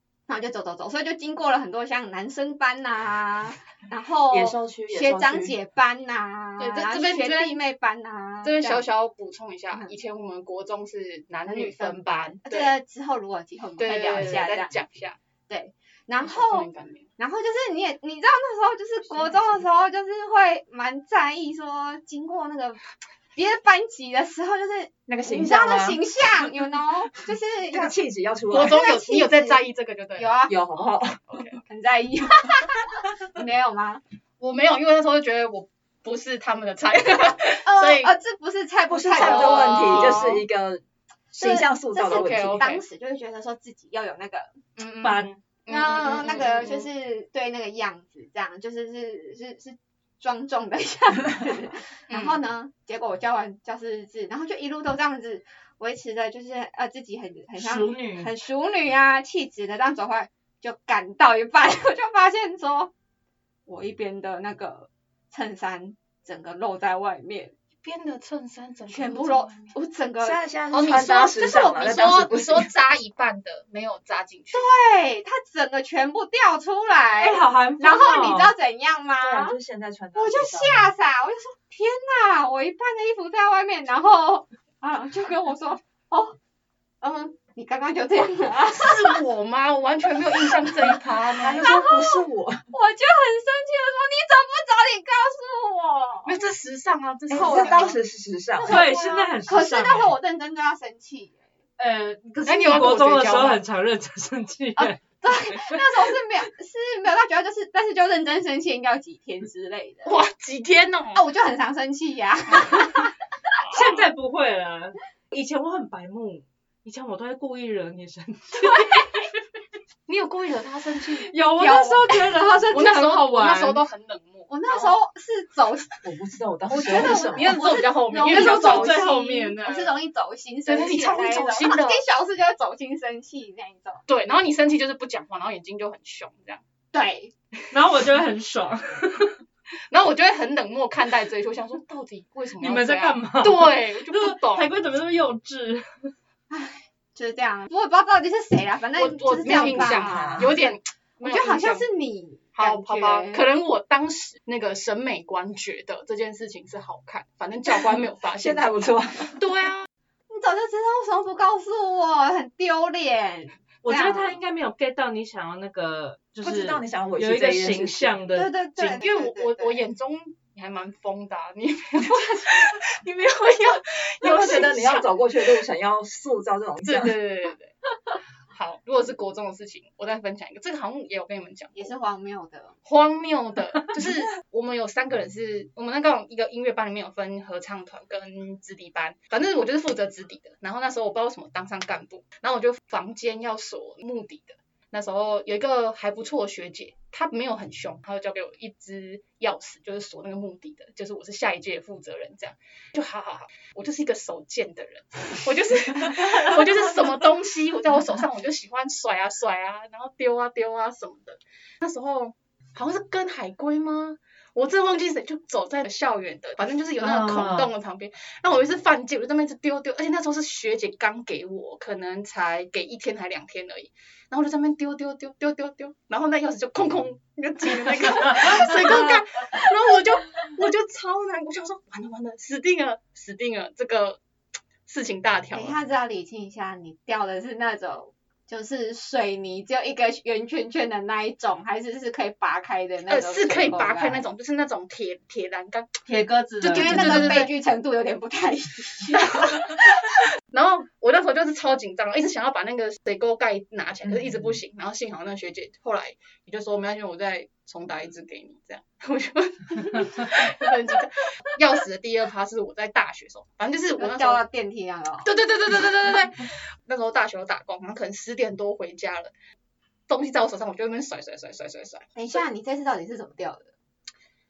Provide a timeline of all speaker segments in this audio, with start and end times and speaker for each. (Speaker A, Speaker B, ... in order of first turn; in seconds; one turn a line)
Speaker A: 0.3-8.8
Speaker B: 4.3-5.5
Speaker C: 6.6-7.6
Speaker C: 8.4-12.7
Speaker A: 11.5-14.8
Speaker C: 13.8-15.2
Speaker A: 15.5-22.8
Speaker C: 16.2-17.1
Speaker B: 19.2-19.6
Speaker A: 23.3-27.9
Speaker B: 25.1-26.0
Speaker B: 27.7-28.8
Speaker C: 28.5-30.3
Speaker A: 28.5-29.6
Speaker A: 30.1-30.6
Speaker B: 30.5-31.4
Speaker C: 31.3-31.6
Speaker A: 31.6-34.0
Speaker C: 34.4-38.1
Speaker A: 37.6-40.3
Speaker B: 38.9-42.7
Speaker C: 39.1-40.4
Speaker A: 41.4-44.5
Speaker C: 42.1-42.8
Speaker C: 44.8-46.9
Speaker D: 45.0-45.4
Speaker A: 45.7-62.9
Speaker C: 52.1-52.4
Speaker D: 57.6-58.3
Speaker A: 63.6-67.5
Speaker C: 67.8-69.7
Speaker A: 68.9-70.4
Speaker B: 70.2-72.7
Speaker C: 70.7-74.7
Speaker A: 74.5-79.5
Speaker D: 77.2-78.5
Speaker B: 79.2-80.9
Speaker A: 80.1-86.4
Speaker A: 87.0-89.2
Speaker C: 88.7-91.7
Speaker B: 91.4-92.6
Speaker A: 91.6-96.4
Speaker C: 96.2-98.0
Speaker B: 97.3-98.8
Speaker A: 97.3-98.0
Speaker A: 98.6-101.5
Speaker D: 98.7-100.1
Speaker D: 101.8-105.8
Speaker C: 102.4-103.6
Speaker A: 104.8-110.2
Speaker C: 110.0-111.2
Speaker A: 111.1-113.1
Speaker C: 113.5-114.1
Speaker D: 113.7-119.1
Speaker A: 118.5-119.2
Speaker C: 120.1-121.3
Speaker D: 121.2-123.8
Speaker A: 121.5-122.6
Speaker C: 122.7-125.0
Speaker A: 124.5-126.0
Speaker B: 126.0-127.6
Speaker A: 126.7-134.0
Speaker C: 126.8-130.0
Speaker D: 128.1-129.6
Speaker C: 130.7-132.0
Speaker C: 134.1-136.6
Speaker A: 136.9-137.3
Speaker D: 137.7-139.4
Speaker C: 139.9-144.7
Speaker D: 142.6-146.1
Speaker A: 146.5-150.6
Speaker C: 149.0-151.8
Speaker B: 149.4-150.6
Speaker A: 151.2-153.4
Speaker C: 152.5-159.9
Speaker B: 157.7-159.4
Speaker A: 160.3-164.4
Speaker D: 163.8-168.5
Speaker B: 166.4-168.2
Speaker A: 168.3-169.8
Speaker C: 168.8-175.6
Speaker B: 174.2-177.2
Speaker C: 176.8-177.7
Speaker C: 178.5-181.9
Speaker A: 181.7-182.7
Speaker C: 182.8-234.2
Speaker D: 217.0-217.7
Speaker D: 228.3-229.2
Speaker C: 234.9-235.8
Speaker A: 235.5-244.2
Speaker C: 243.1-245.9
Speaker D: 246.1-247.5
Speaker C: 246.6-247.5
Speaker A: 246.7-249.8
Speaker C: 249.1-264.4
Speaker B: 254.0-254.6
Speaker A: 264.0-265.3
Speaker C: 265.2-269.3
Speaker C: 270.1-272.4
Speaker A: 272.1-273.7